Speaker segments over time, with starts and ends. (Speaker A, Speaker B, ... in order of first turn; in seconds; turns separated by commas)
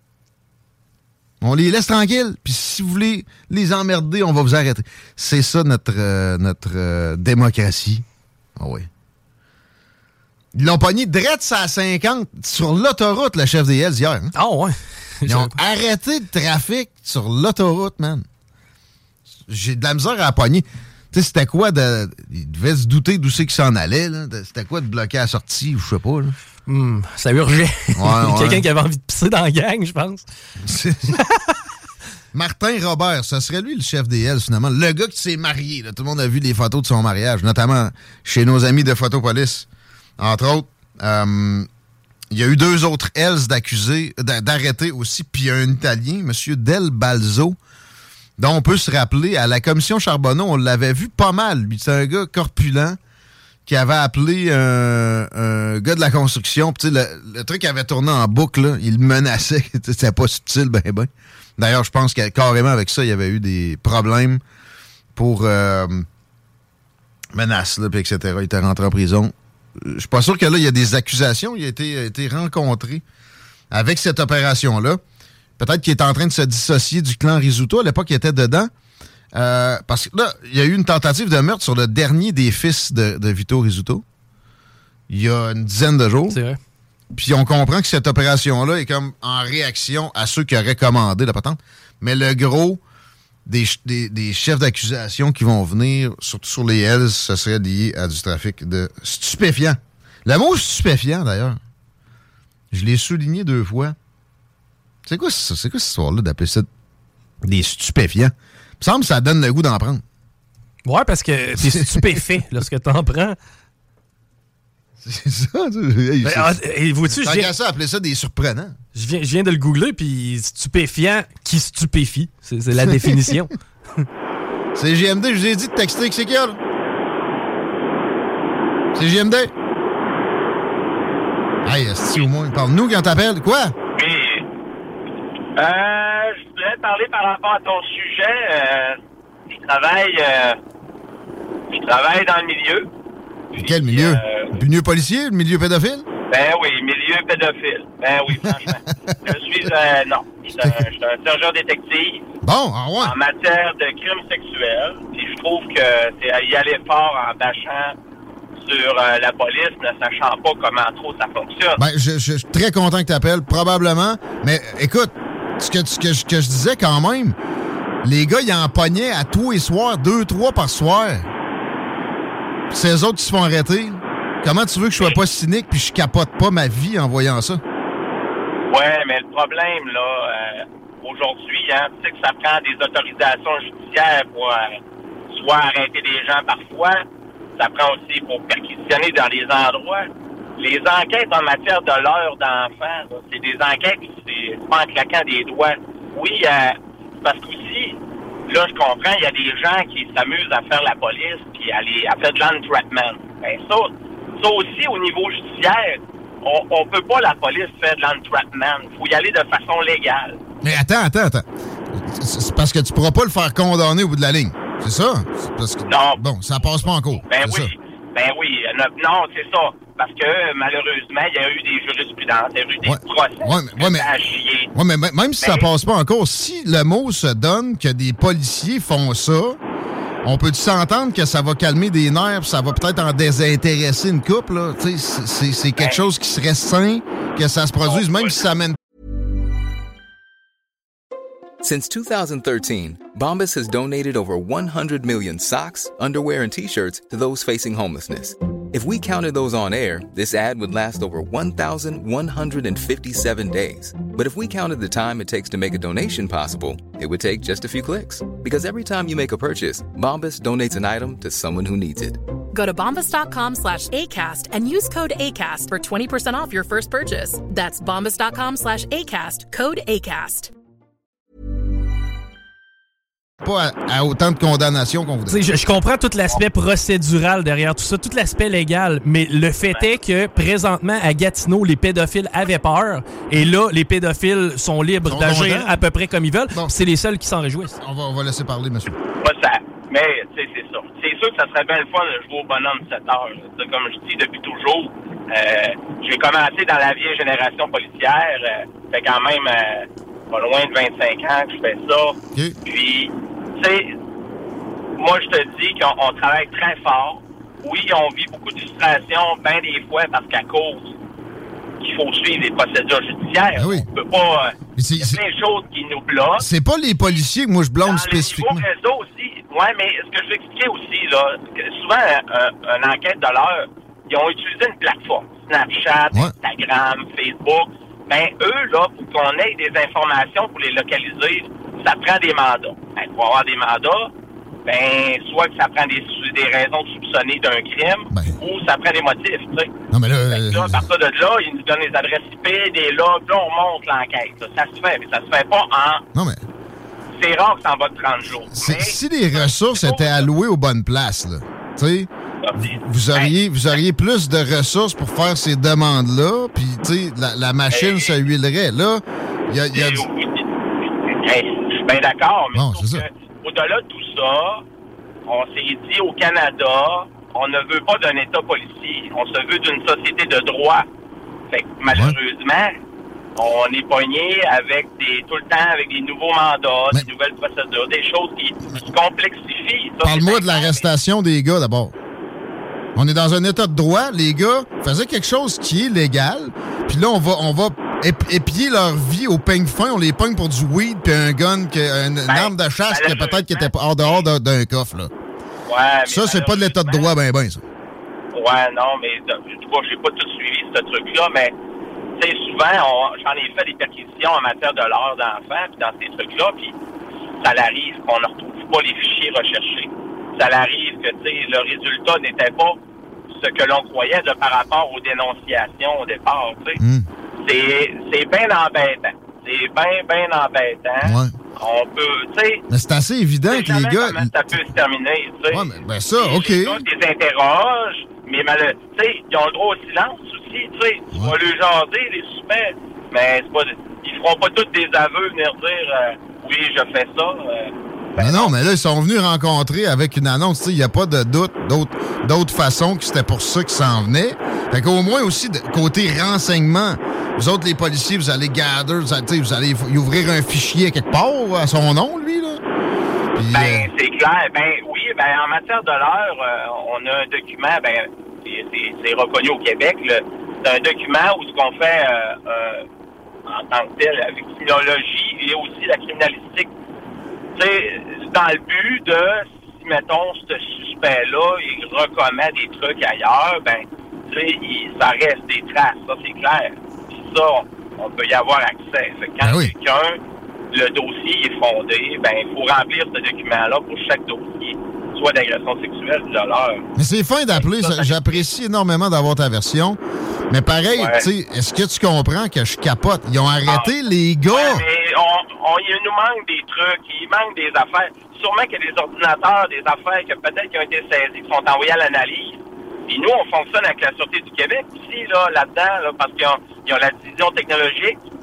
Speaker A: 1.4-8.0, Speaker A: 8.6-8.9, Speaker A: 10.5-14.3, Speaker B: 14.3-15.5, Speaker A: 15.2-18.2, Speaker A: 19.5-26.3, Speaker B: 26.6-30.2, Speaker A: 27.9-28.6, Speaker A: 30.6-31.2, Speaker B: 31.1-31.5, Speaker A: 32.3-39.7, Speaker A: 40.2-41.7, Speaker A: 42.3-47.6, Speaker A: 48.4-53.0, Speaker A: 53.6-64.4, Speaker A: 65.1-66.1, Speaker A: 67.3-73.0, Speaker A: 73.7-75.0, Speaker A: 75.6-78.7, Speaker A: 79.3-84.0, Speaker A: 85.1-86.4, Speaker B: 86.3-86.6, Speaker A: 87.1-92.8, Speaker A: 93.5-101.6, Speaker A: 102.7-104.0, Speaker A: 105.0-106.7, Speaker A: 107.4-110.0, Speaker B: 110.8-113.4, Speaker A: 111.6-112.2, Speaker A: 115.0-118.8, Speaker B: 116.2-117.5, Speaker B: 118.9-123.5, Speaker A: 122.8-123.4, Speaker A: 124.7-126.6, Speaker A: 128.9-129.5, Speaker A: 131.6-133.7, Speaker C: 133.9-134.5, Speaker C: 135.6-140.6, Speaker C: 141.7-142.9, Speaker C: 143.5-144.6, Speaker A: 143.5-146.1, Speaker C: 146.3-152.2, Speaker A: 149.1-149.3, Speaker A: 150.6-150.9, Speaker A: 152.4-153.1, Speaker C: 153.0-157.9, Speaker C: 158.6-161.8, Speaker A: 161.8-167.4, Speaker A: 168.0-171.3, Speaker A: 172.7-177.6, Speaker C: 178.7-184.8, Speaker C: 185.3-187.0, Speaker C: 187.6-210.4, Speaker A: 210.6-217.7, Speaker C: 215.9-216.2, Speaker C: 217.2-224.7, Speaker A: 222.8-224.1, Speaker A: 224.7-229.6, Speaker C: 225.4-225.7, Speaker A: 230.2-238.8, Speaker C: 237.8-238.4, Speaker D: 241.6-262.2, Speaker E: 262.5-270.5, Speaker A: 273.4-275.4, Speaker B: 275.3-287.8, Speaker C: 279.6-280.0, Speaker A: 285.0-285.7, Speaker A: 287.8-289.0, Speaker C: 289.2-303.9, Speaker C: 305.0-310.9, Speaker C: 311.8-316.4, Speaker A: 313.5-313.9, Speaker A: 314.8-315.2, Speaker A: 316.4-318.7, Speaker C: 317.8-334.1, Speaker C: 334.6-339.7, Speaker A: 338.1-338.4, Speaker A: 339.9-340.9, Speaker C: 340.3-346.0, Speaker A: 346.1-346.4, Speaker C: 347.2-350.3, Speaker A: 348.5-360.1, Speaker C: 352.4-353.3, Speaker C: 357.7-358.2, Speaker C: 359.7-364.6, Speaker A: 362.5-363.1, Speaker C: 365.3-370.9, Speaker C: 371.5-372.8, Speaker A: 371.9-372.2, Speaker C: 373.4-380.8, Speaker A: 380.0-381.9, Speaker A: 382.9-395.1, Speaker C: 392.3-394.2, Speaker C: 395.7-397.1, Speaker A: 396.1-397.6, Speaker C: 398.3-401.5, Speaker C: 402.2-406.7, Speaker C: 407.4-412.8, Speaker C: 413.3-416.8, Speaker A: 416.8-417.1, Speaker C: 417.4-422.6, Speaker A: 421.0-421.3, Speaker A: 422.7-424.6, Speaker C: 423.5-425.6, Speaker A: 425.5-426.8, Speaker C: 426.2-438.6, Speaker A: 438.2-452.6, Speaker A: 453.3-453.9, Speaker C: 453.5-462.8, Speaker C: 463.5-466.7, Speaker C: 467.6-480.2, Speaker A: 479.4-479.7, Speaker C: 480.7-486.8, Speaker A: 486.9-494.8, Speaker C: 487.5-488.4, Speaker C: 490.9-491.2, Speaker C: 493.7-493.9, Speaker C: 494.5-508.2